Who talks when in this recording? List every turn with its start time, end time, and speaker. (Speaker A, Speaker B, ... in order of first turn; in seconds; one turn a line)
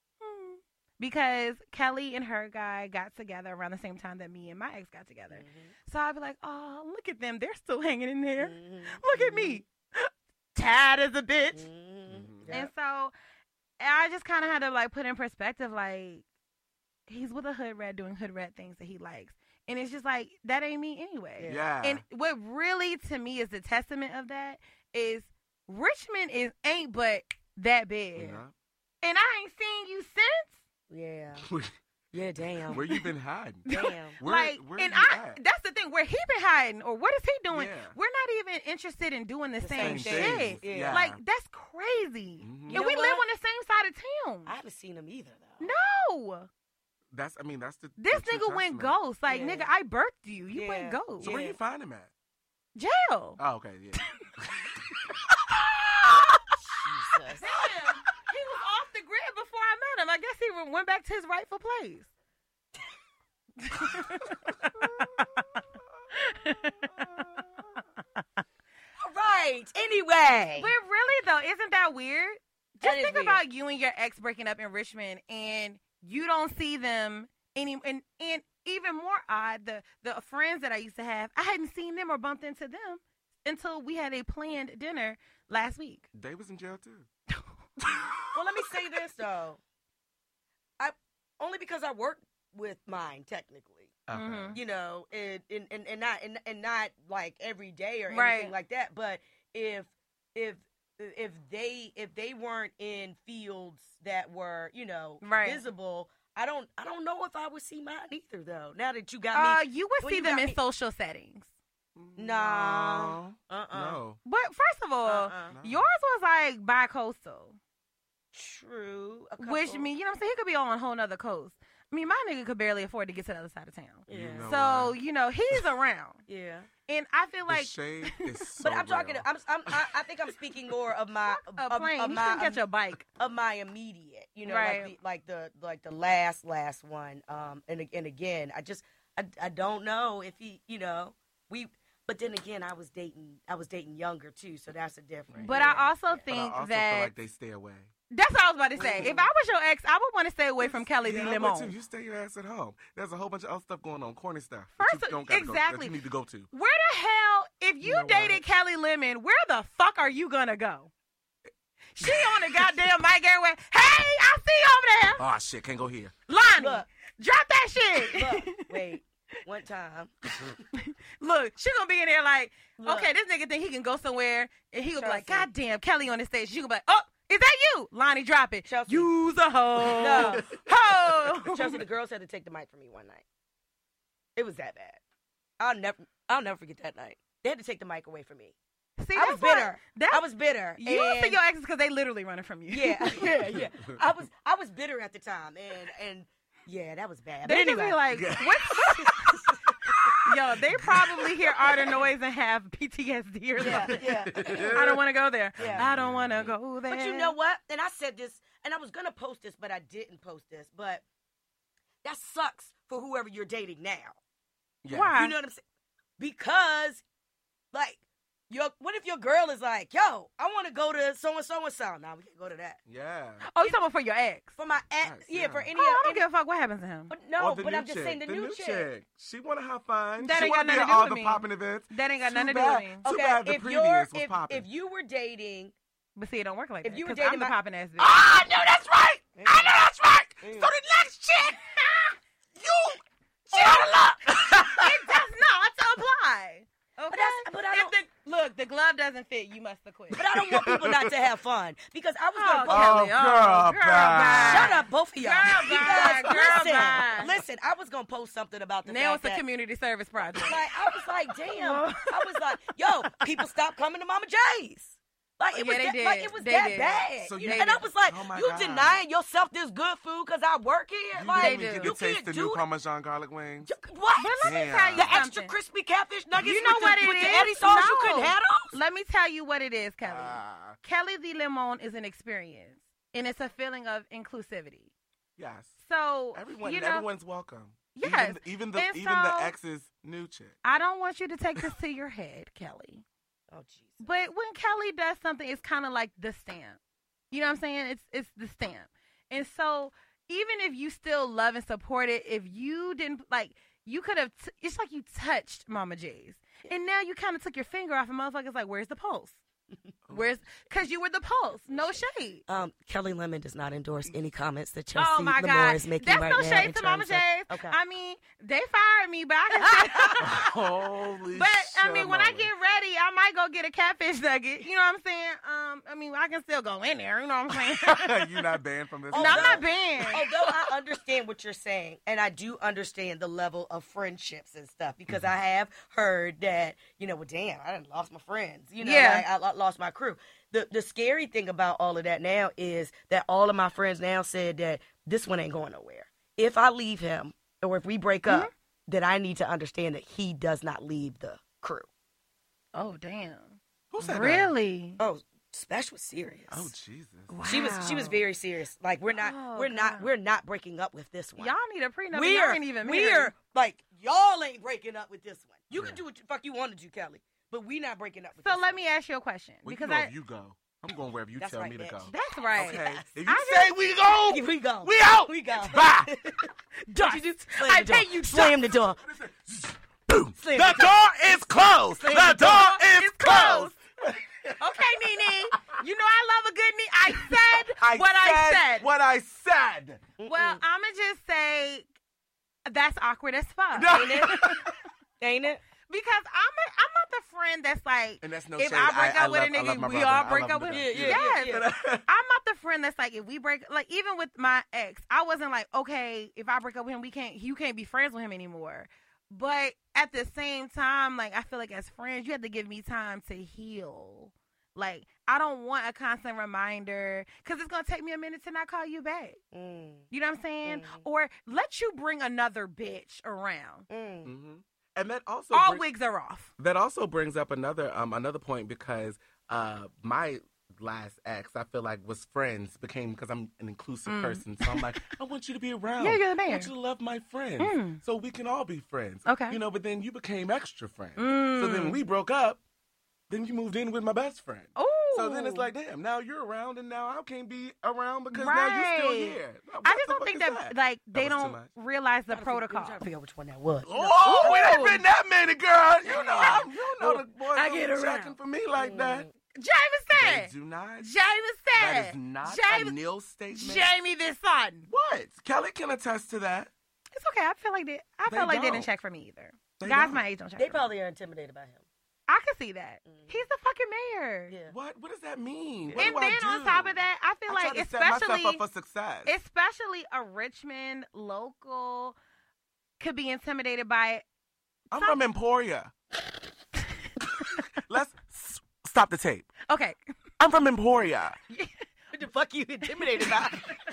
Speaker A: 0.2-11.7
Speaker B: 5.3-5.7
Speaker B: 8.4-9.6
Speaker B: 11.5-12.7
Speaker C: 12.1-12.6
Speaker A: 12.5-13.1
Speaker A: 13.8-16.2
Speaker A: 17.1-28.4
Speaker B: 21.4-21.6
Speaker C: 21.4-22.0
Speaker C: 28.2-28.5
Speaker A: 29.0-30.6
Speaker B: 30.9-31.5
Speaker C: 31.4-31.8
Speaker B: 32.1-32.8
Speaker C: 32.7-35.4
Speaker A: 33.7-44.5
Speaker B: 33.7-34.2
Speaker C: 37.5-38.0
Speaker B: 39.6-41.0
Speaker C: 39.8-41.2
Speaker C: 42.4-42.8
Speaker B: 42.7-43.2
Speaker B: 44.5-45.7
Speaker A: 45.6-46.5
Speaker C: 47.1-49.0
Speaker A: 48.0-51.3
Speaker B: 49.3-49.7
Speaker B: 50.5-51.6
Speaker C: 51.2-52.1
Speaker A: 52.8-53.4
Speaker C: 53.4-55.3
Speaker B: 56.7-57.4
Speaker A: 57.4-62.1
Speaker A: 63.6-65.3
Speaker C: 64.8-65.3
Speaker A: 66.1-66.9
Speaker C: 66.5-67.7
Speaker B: 69.0-70.7
Speaker A: 70.6-86.1
Speaker B: 72.8-73.4
Speaker C: 86.1-87.1
Speaker C: 87.8-88.3
Speaker B: 88.3-89.6
Speaker B: 90.8-94.0
Speaker C: 94.1-94.6
Speaker A: 94.1-94.6
Speaker B: 94.5-110.6
Speaker A: 98.1-98.5
Speaker A: 105.2-105.6
Speaker A: 109.3-111.5
Speaker C: 112.0-114.2
Speaker B: 112.2-114.0
Speaker A: 114.2-117.6
Speaker B: 115.0-115.5
Speaker C: 115.5-115.9
Speaker B: 118.3-119.9
Speaker A: 119.4-126.2
Speaker B: 124.1-124.5
Speaker C: 124.1-125.0
Speaker B: 126.3-126.7
Speaker A: 126.9-128.3
Speaker C: 127.5-129.9
Speaker B: 128.6-132.6
Speaker A: 131.3-133.1
Speaker B: 133.2-146.2
Speaker A: 134.5-134.9
Speaker C: 145.3-147.9
Speaker A: 145.4-147.1
Speaker A: 148.1-151.8
Speaker B: 148.8-149.3
Speaker C: 150.9-156.5
Speaker A: 154.8-155.9
Speaker A: 156.5-160.9
Speaker C: 157.8-158.4
Speaker A: 161.9-165.2
Speaker C: 162.0-162.7
Speaker C: 165.2-166.1
Speaker A: 166.3-168.8
Speaker B: 166.6-166.9
Speaker B: 168.1-170.1
Speaker A: 170.7-181.8
Speaker B: 172.8-173.1
Speaker B: 175.0-175.5
Speaker B: 178.7-179.1
Speaker B: 180.0-180.5
Speaker C: 180.0-181.3
Speaker B: 181.4-183.2
Speaker B: 184.4-185.0
Speaker B: 185.6-188.6
Speaker A: 189.0-190.2
Speaker B: 189.2-191.4
Speaker A: 190.8-193.4
Speaker B: 192.7-198.0
Speaker C: 193.5-193.9
Speaker A: 197.4-199.4
Speaker C: 198.1-202.0
Speaker B: 199.0-200.1
Speaker A: 200.2-207.3
Speaker B: 203.6-204.8
Speaker C: 203.6-205.0
Speaker C: 205.6-206.5
Speaker B: 205.6-205.9
Speaker B: 206.9-211.0
Speaker B: 212.0-214.2
Speaker C: 214.8-215.2
Speaker A: 214.9-215.3
Speaker B: 215.1-215.6
Speaker B: 216.2-217.0
Speaker B: 217.7-222.8
Speaker C: 222.9-223.5
Speaker A: 223.4-224.6
Speaker B: 224.6-226.2
Speaker C: 225.0-225.7
Speaker A: 225.8-227.1
Speaker B: 227.1-228.9
Speaker C: 227.4-234.7
Speaker A: 230.2-233.1
Speaker B: 233.0-235.7
Speaker A: 236.2-238.2
Speaker B: 236.8-237.6
Speaker C: 238.0-245.2
Speaker B: 239.4-239.7
Speaker B: 240.4-240.7
Speaker B: 243.5-244.3
Speaker A: 243.6-243.8
Speaker A: 244.7-250.2
Speaker B: 247.1-248.1
Speaker B: 250.1-253.1
Speaker C: 250.3-251.2
Speaker A: 252.3-257.4
Speaker C: 252.7-254.8
Speaker B: 254.3-259.4
Speaker C: 256.3-256.6
Speaker A: 258.9-260.7
Speaker B: 260.4-272.6
Speaker A: 261.5-262.4
Speaker A: 265.5-267.8
Speaker C: 267.2-269.0
Speaker C: 271.1-273.7
Speaker A: 271.4-271.9
Speaker B: 273.7-278.8
Speaker A: 274.2-275.6
Speaker C: 274.4-275.2
Speaker A: 276.4-284.9
Speaker C: 280.0-280.8
Speaker C: 285.4-285.7
Speaker A: 285.8-287.1
Speaker C: 286.3-290.6
Speaker A: 287.9-289.6
Speaker A: 290.6-293.0
Speaker B: 293.5-294.0
Speaker A: 294.0-296.8
Speaker A: 297.3-309.4
Speaker C: 310.1-310.3
Speaker A: 310.1-312.4
Speaker B: 311.7-317.8
Speaker A: 314.9-320.5
Speaker C: 320.2-322.5
Speaker A: 321.3-328.4
Speaker C: 327.6-329.6
Speaker B: 329.1-351.9
Speaker A: 329.1-330.3
Speaker A: 338.8-339.3
Speaker A: 352.8-355.0
Speaker C: 353.9-354.5
Speaker B: 355.0-356.7
Speaker C: 356.5-357.4
Speaker A: 357.3-358.2
Speaker B: 357.4-361.5
Speaker A: 359.1-360.1
Speaker A: 361.4-363.3
Speaker B: 362.1-368.8
Speaker C: 365.8-366.0
Speaker A: 368.4-370.1
Speaker C: 369.6-376.1
Speaker B: 371.4-372.9
Speaker A: 372.1-373.8
Speaker B: 374.3-379.0
Speaker A: 376.9-378.6
Speaker C: 379.0-385.1
Speaker B: 380.4-381.0
Speaker B: 382.0-382.6
Speaker A: 382.1-383.8
Speaker A: 384.6-388.9
Speaker C: 387.1-390.0
Speaker B: 390.2-390.6
Speaker A: 390.3-391.9
Speaker A: 392.7-394.6
Speaker C: 393.7-394.8
Speaker B: 393.9-394.4
Speaker B: 395.2-395.6
Speaker A: 395.9-419.4
Speaker C: 398.2-402.1
Speaker B: 400.7-401.6
Speaker B: 419.5-420.1
Speaker A: 420.1-423.9
Speaker B: 420.6-421.0
Speaker B: 423.9-424.3
Speaker C: 424.2-425.9
Speaker A: 425.5-426.5
Speaker C: 426.6-442.6
Speaker A: 434.1-435.0
Speaker A: 436.0-436.7
Speaker A: 437.6-438.0
Speaker A: 439.3-439.6
Speaker A: 441.2-442.0
Speaker C: 443.3-451.7
Speaker A: 444.8-445.7
Speaker A: 448.3-453.0
Speaker B: 452.3-454.9
Speaker C: 453.9-459.3
Speaker A: 454.2-455.0
Speaker A: 456.1-458.4
Speaker B: 456.2-456.6
Speaker B: 458.8-459.3
Speaker A: 459.6-463.0
Speaker C: 460.1-461.1
Speaker C: 461.8-463.9
Speaker A: 463.5-464.9
Speaker C: 464.9-466.7
Speaker A: 467.1-470.9
Speaker C: 468.3-468.9
Speaker C: 469.8-470.2
Speaker B: 470.6-471.8
Speaker A: 472.3-474.6
Speaker B: 473.1-473.4
Speaker C: 474.7-479.3
Speaker B: 475.9-476.1
Speaker A: 476.0-478.6
Speaker A: 479.3-482.2
Speaker A: 483.0-484.2
Speaker C: 484.9-485.9
Speaker C: 487.4-489.5
Speaker A: 489.7-490.0
Speaker C: 490.4-491.4
Speaker B: 492.1-493.8